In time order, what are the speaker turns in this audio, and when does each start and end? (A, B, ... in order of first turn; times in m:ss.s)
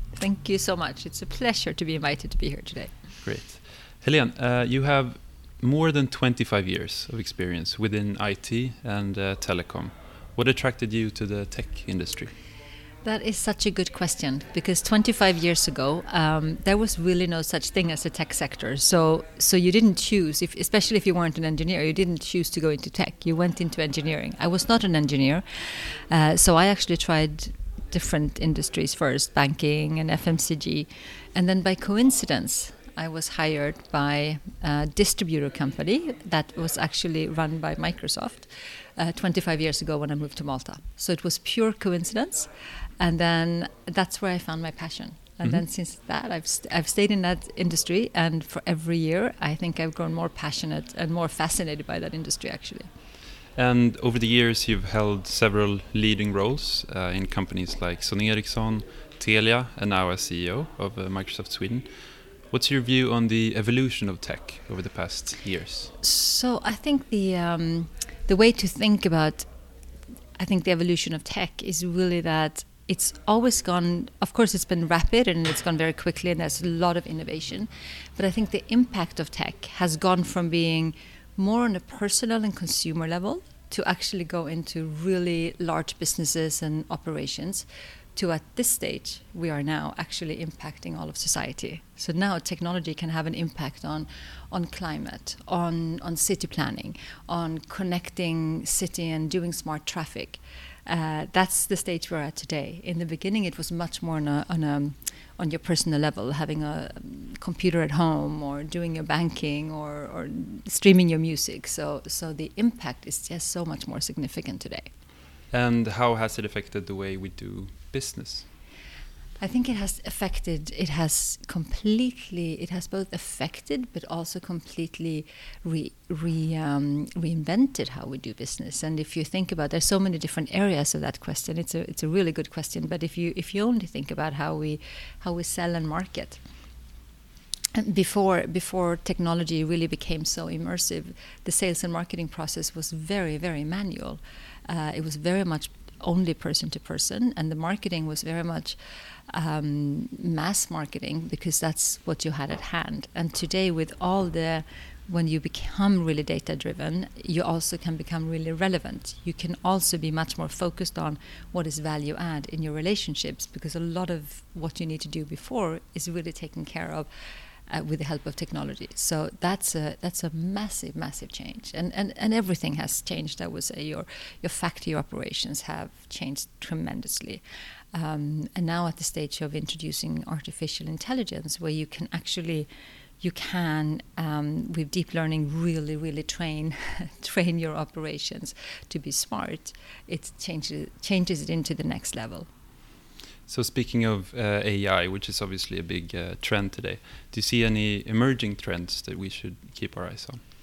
0:00.1-0:03.2 A
0:03.2-0:12.3 B
0:13.0-0:52.9 A
0:53.6-1:05.9 B
1:06.0-1:09.5 A
1:10.4-1:54.9 A
1:55.5-1:58.5 B
1:59.4-2:16.4 A
2:17.8-2:47.1 A
2:47.7-2:57.4 A
2:57.9-3:02.7 A
3:03.2-3:12.5 A
3:13.5-3:20.4 B